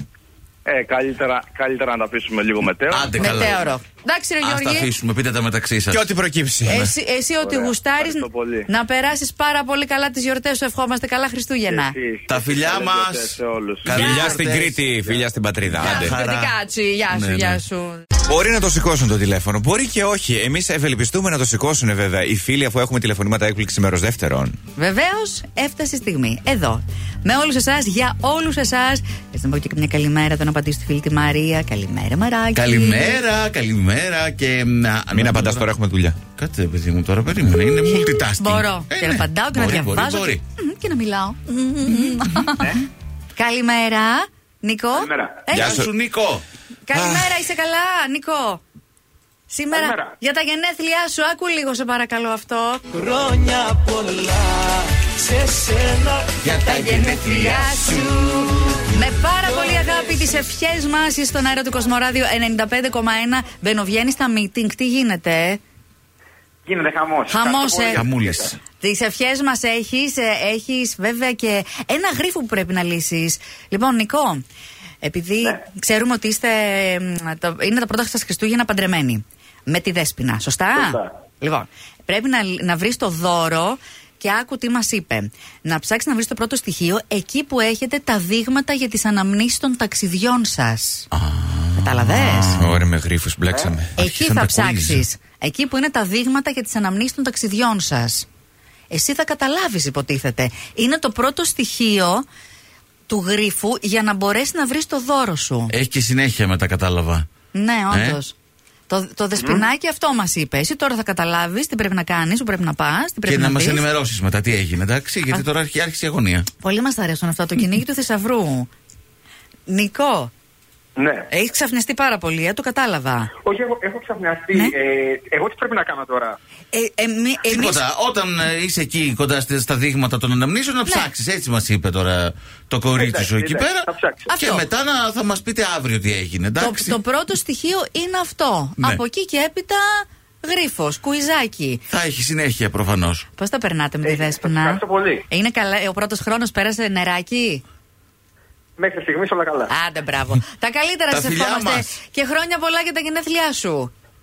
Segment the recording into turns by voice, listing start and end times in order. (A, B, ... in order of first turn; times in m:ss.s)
0:00.7-0:03.5 A
0:02.9-0:03.6 B
0:03.2-0:04.9 C
0:04.4-0:06.0 B
0:05.9-0:06.9 D
0:06.6-0:12.0 C
0:07.4-0:08.7 A
0:11.7-0:15.2 A
0:12.3-0:14.6 B
0:13.9-0:16.2 D
0:13.9-0:14.4 C
0:15.8-0:16.6 B
0:15.8-0:18.1 C
0:17.1-0:17.6 B
0:18.2-0:24.6 D
0:24.8-0:33.2 C
0:32.6-0:35.7 B
0:35.1-0:36.2 D
0:36.4-0:40.4 B
0:37.9-0:42.7 C
0:43.4-0:45.9 C
0:45.0-0:45.5 E
0:45.5-0:45.9 D
0:45.6-0:46.4 B
0:46.9-0:48.6 C
0:46.9-0:47.4 D
0:49.5-0:52.8 C
0:49.7-0:50.1 E
0:53.0-0:56.3 F
0:56.4-0:58.2 B
0:56.6-1:05.6 C
1:06.7-1:08.5 E
1:07.3-1:08.1 C
1:07.9-1:08.6 B
1:08.8-1:14.4 C
1:15.0-1:31.1 C
1:31.1-1:32.6 B
1:31.8-1:32.6 C
1:32.6-1:33.9 D
1:34.0-1:38.3 C
1:34.0-1:35.0 B
1:38.9-1:42.2 C
1:43.1-1:45.7 C
1:45.7-1:47.3 B
1:47.5-1:48.4 C
1:47.9-1:48.2 B
1:48.9-1:53.8 C
1:53.3-1:56.5 B
1:56.6-1:58.7 C
1:59.7-2:00.3 C
2:01.0-2:01.3 E
2:01.3-2:03.3 C
2:03.4-2:06.4 E
2:06.7-2:07.8 C
2:07.4-2:17.0 B
2:13.0-2:14.3 E
2:14.3-2:14.6 C
2:16.6-2:21.8 C
2:21.9-2:23.2 B
2:23.4-2:27.6 C
2:24.0-2:25.2 E
2:28.8-2:29.7 E
2:29.7-2:33.9 C
2:31.1-2:31.9 B